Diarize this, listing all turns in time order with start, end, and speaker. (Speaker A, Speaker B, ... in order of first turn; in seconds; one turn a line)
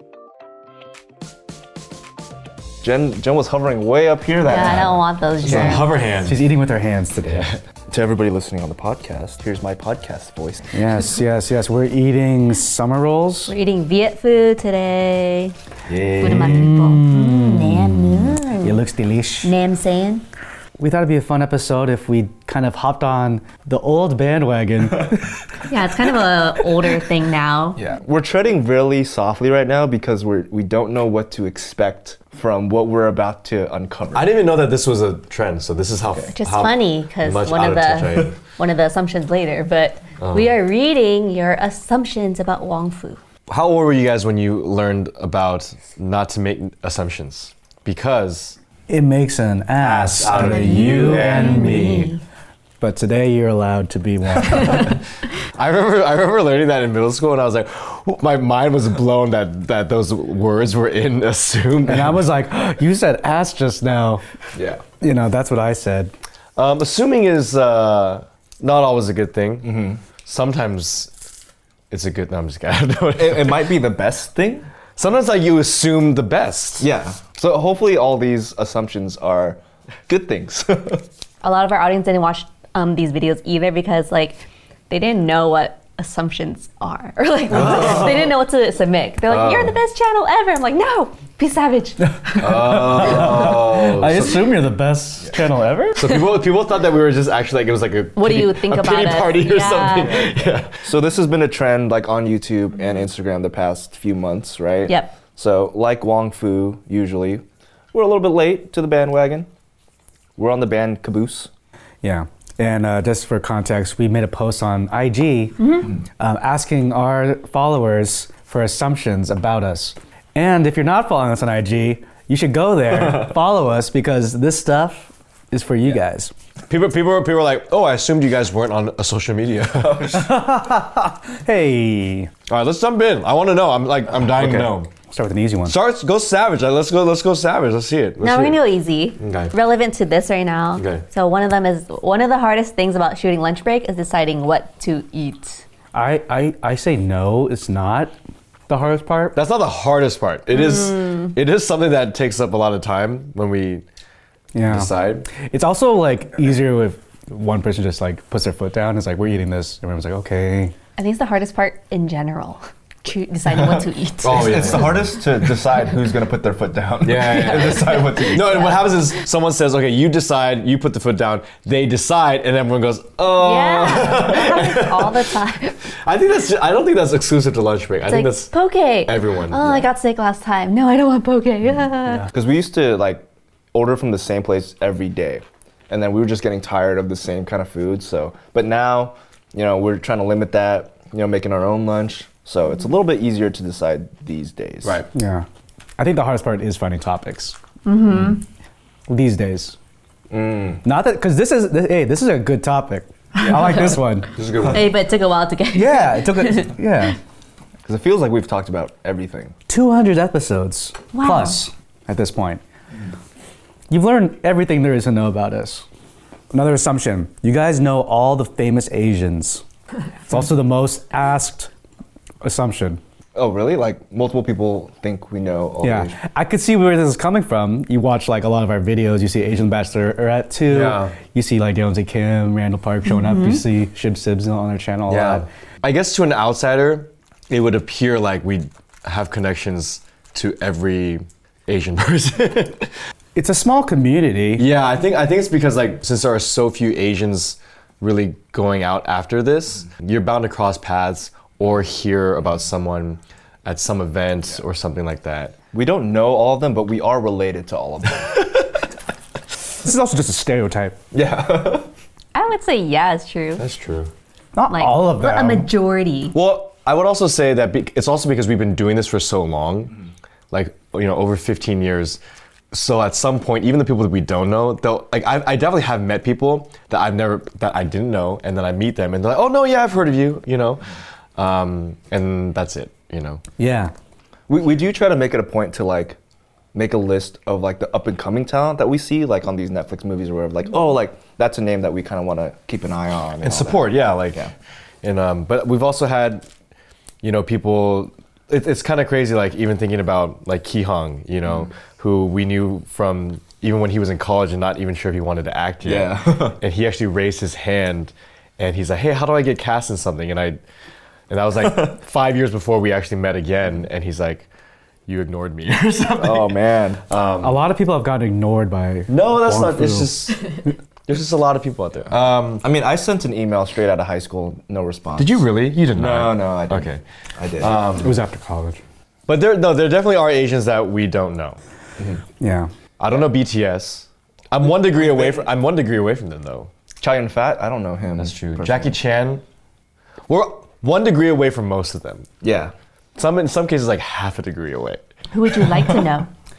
Speaker A: 2.8-5.0
Speaker B: 4.4-5.9
Speaker C: 5.4-6.4
Speaker D: 5.5-7.5
Speaker A: 7.9-10.7
Speaker D: 10.7-13.5
Speaker B: 13.5-15.5
Speaker A: 15.9-16.7
Speaker B: 16.2-18.8
Speaker D: 16.2-19.5
Speaker B: 19.4-20.2
Speaker D: 20.8-25.3
Speaker B: 25.7-27.8
Speaker A: 27.8-34.3
Speaker C: 34.1-38.4
Speaker B: 36.4-43.2
Speaker C: 40.2-40.5
Speaker C: 43.5-48.6
Speaker D: 48.9-52.1
Speaker C: 49.8-52.1
Speaker B: 50.3-52.2
Speaker D: 52.8-55.0
Speaker C: 55.5-62.2
Speaker D: 61.9-64.2
Speaker A: 64.5-64.8
Speaker D: 65.0-66.1
Speaker C: 66.6-71.1
Speaker A: 69.6-70.0
Speaker C: 71.9-73.7
Speaker A: 73.2-74.7
Speaker C: 75.0-76.9
Speaker A: 76.8-81.0
Speaker B: 81.4-92.8
Speaker C: 89.3-89.8
Speaker D: 92.2-96.1
Speaker C: 92.4-94.4
Speaker A: 93.0-93.5
Speaker C: 96.0-100.8
Speaker B: 98.2-100.2
Speaker A: 100.8-109.5
Speaker B: 104.9-105.1
Speaker A: 110.4-111.5
Speaker D: 112.0-126.3
Speaker B: 115.6-115.9
Speaker C: 126.7-130.2
Speaker A: 129.8-130.2
Speaker D: 130.1-132.3
Speaker C: 132.5-134.9
Speaker A: 134.3-134.7
Speaker D: 135.1-135.8
Speaker C: 135.7-138.6
Speaker B: 138.2-145.7
Speaker C: 139.2-139.5
Speaker C: 140.8-141.0
Speaker D: 145.9-148.1
Speaker D: 148.7-149.4
Speaker C: 149.3-153.8
Speaker B: 150.8-151.3
Speaker D: 154.5-160.7
Speaker C: 154.7-155.3
Speaker B: 161.0-164.9
Speaker A: 163.5-168.8
Speaker C: 164.2-165.1
Speaker C: 167.0-175.2
Speaker B: 167.2-169.0
Speaker B: 173.3-175.8
Speaker C: 176.0-178.5
Speaker B: 178.1-182.3
Speaker C: 179.1-179.7
Speaker A: 179.6-179.9
Speaker A: 182.3-195.0
Speaker D: 195.1-195.5
Speaker D: 196.0-197.6
Speaker B: 197.8-198.4
Speaker D: 199.1-199.8
Speaker A: 200.3-200.8
Speaker D: 200.8-204.3
Speaker C: 204.3-204.9
Speaker B: 204.7-206.9
Speaker D: 205.7-207.2
Speaker A: 207.8-209.6
Speaker D: 209.7-212.6
Speaker B: 211.1-211.6
Speaker D: 213.9-215.8
Speaker D: 216.5-219.6
Speaker D: 220.3-221.7
Speaker D: 222.4-223.0
Speaker A: 223.3-226.2
Speaker D: 225.8-235.5
Speaker C: 230.7-231.2
Speaker B: 233.1-233.6
Speaker C: 235.1-242.9
Speaker D: 243.3-244.7
Speaker C: 244.6-255.6
Speaker A: 255.7-258.6
Speaker D: 259.8-261.0
Speaker A: 261.1-261.9
Speaker B: 262.3-263.6
Speaker C: 263.6-264.1
Speaker D: 264.6-265.7
Speaker B: 264.7-266.4
Speaker C: 266.3-269.9
Speaker C: 270.5-272.2
Speaker C: 272.7-283.4
Speaker D: 283.6-283.9
Speaker A: 284.5-286.2
Speaker A: 286.7-294.5
Speaker C: 293.4-294.5
Speaker C: 295.0-296.5
Speaker C: 297.2-310.6
Speaker A: 305.9-306.6
Speaker C: 311.3-314.5
Speaker C: 315.1-317.6
Speaker A: 316.1-317.0
Speaker D: 317.4-320.2
Speaker C: 319.1-320.4
Speaker C: 321.1-322.6
Speaker A: 322.6-325.4
Speaker C: 325.2-327.0
Speaker A: 325.9-327.9
Speaker C: 327.6-328.2
Speaker D: 328.0-328.8
Speaker C: 329.3-331.6
Speaker D: 332.4-332.7
Speaker C: 333.0-336.7
Speaker A: 335.0-335.4
Speaker A: 337.0-338.9
Speaker C: 338.2-339.4
Speaker C: 340.3-342.3
Speaker A: 342.4-342.7
Speaker C: 343.2-345.0
Speaker B: 345.3-346.3